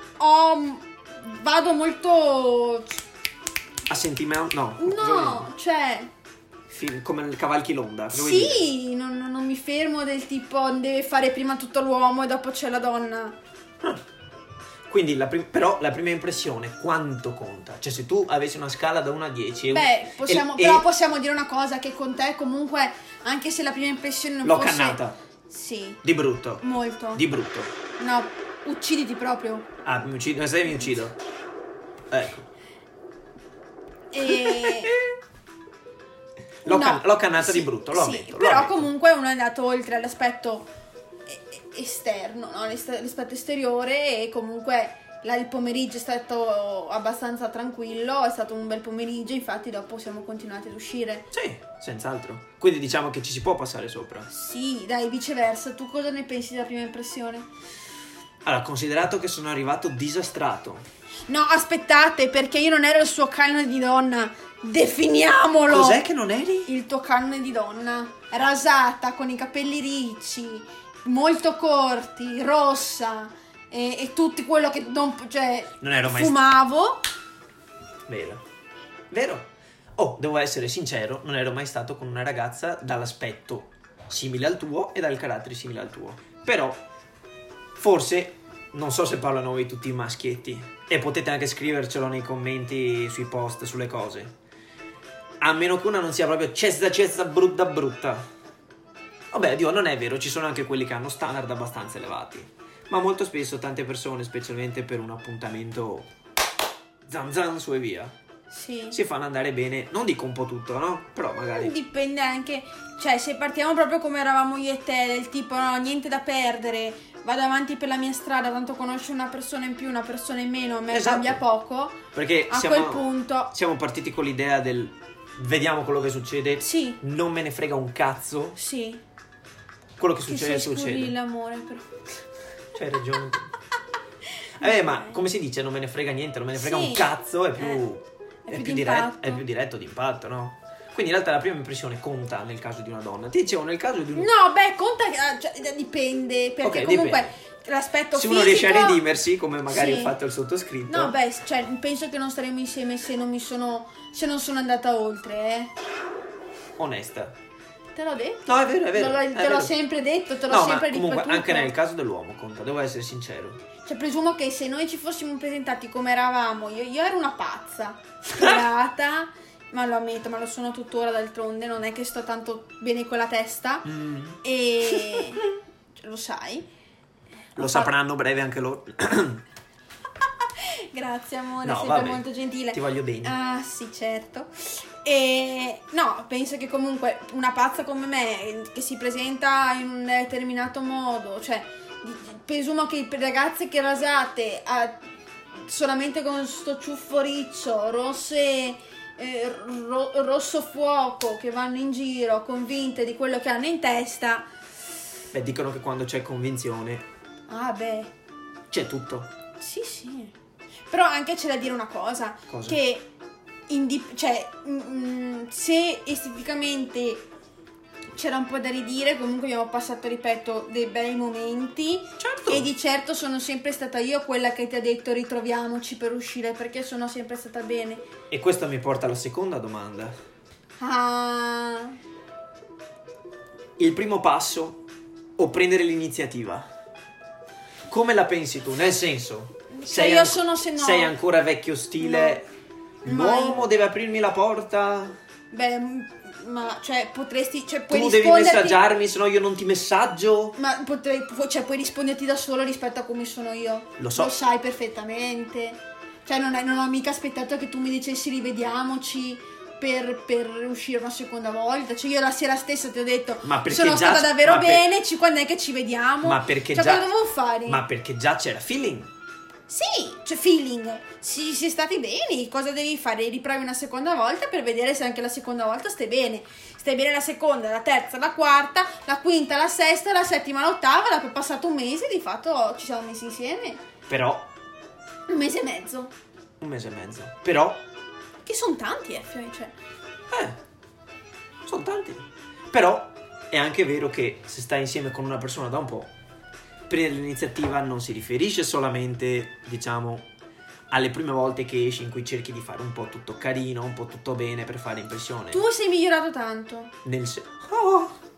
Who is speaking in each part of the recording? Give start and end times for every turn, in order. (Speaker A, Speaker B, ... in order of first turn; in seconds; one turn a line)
Speaker A: 0.2-3.0
Speaker B: 3.9-5.5
Speaker A: 4.8-6.1
Speaker B: 6.7-8.7
Speaker A: 8.1-13.4
Speaker B: 14.9-20.9
Speaker A: 19.7-26.0
Speaker B: 24.4-25.1
Speaker B: 26.0-26.6
Speaker A: 26.6-27.2
Speaker B: 27.1-27.7
Speaker A: 28.0-29.6
Speaker B: 29.9-31.1
Speaker B: 32.1-32.5
Speaker A: 34.1-34.9
Speaker B: 34.3-35.1
Speaker B: 36.6-38.9
Speaker A: 36.6-40.7
Speaker A: 41.3-51.3
Speaker B: 51.3-54.3
Speaker A: 54.3-57.5
Speaker B: 58.4-60.8
Speaker A: 61.3-66.0
Speaker B: 65.7-66.7
Speaker A: 66.7-77.0
Speaker B: 75.8-76.4
Speaker B: 78.1-78.4
Speaker B: 79.1-86.8
Speaker B: 87.8-94.3
Speaker B: 95.4-98.2
Speaker B: 99.3-106.1
Speaker B: 107.1-108.1
Speaker A: 108.5-109.0
Speaker B: 108.9-111.7
Speaker A: 111.5-123.5
Speaker B: 120.9-121.4
Speaker B: 122.1-128.6
Speaker A: 126.6-127.0
Speaker A: 128.6-129.0
Speaker B: 130.0-131.1
Speaker A: 130.3-132.0
Speaker B: 132.7-133.5
Speaker B: 134.6-144.3
Speaker A: 134.6-135.2
Speaker A: 136.6-137.8
Speaker A: 138.5-139.4
Speaker A: 144.1-149.0
Speaker B: 146.6-147.3
Speaker B: 148.1-151.1
Speaker A: 149.7-150.1
Speaker A: 150.9-155.7
Speaker B: 156.8-157.3
Speaker A: 157.9-161.7
Speaker B: 158.4-159.7
Speaker B: 160.5-163.6
Speaker A: 163.8-173.9
Speaker B: 173.9-174.4
Speaker A: 174.4-175.4
Speaker B: 174.9-175.4
Speaker A: 176.0-176.7
Speaker A: 177.6-177.9
Speaker B: 177.6-179.4
Speaker A: 180.6-195.0
Speaker B: 181.6-183.3
Speaker A: 195.6-204.5
Speaker B: 205.3-207.0
Speaker A: 207.5-208.1
Speaker B: 208.7-209.3
Speaker A: 209.6-210.3
Speaker A: 210.9-213.1
Speaker B: 212.5-212.8
Speaker A: 213.7-217.2
Speaker A: 218.1-228.0
Speaker B: 222.2-222.7
Speaker B: 228.3-230.1
Speaker A: 230.8-232.0
Speaker B: 233.8-234.8
Speaker B: 235.4-236.7
Speaker B: 237.9-242.5
Speaker A: 239.7-241.1
Speaker A: 242.0-242.4
Speaker B: 243.0-245.2
Speaker A: 243.0-243.7
Speaker A: 245.5-248.8
Speaker B: 247.9-250.6
Speaker A: 250.6-267.8
Speaker B: 254.0-254.3
Speaker B: 263.4-264.9
Speaker B: 266.2-267.1
Speaker B: 267.6-269.1
Speaker A: 269.7-283.8
Speaker B: 284.1-284.5
Speaker A: 285.3-286.1
Speaker B: 286.6-287.8
Speaker A: 288.4-289.8
Speaker B: 290.3-290.6
Speaker B: 291.6-296.1
Speaker B: 296.9-300.3
Speaker B: 300.9-305.6
Speaker A: 305.5-306.9
Speaker B: 307.0-308.1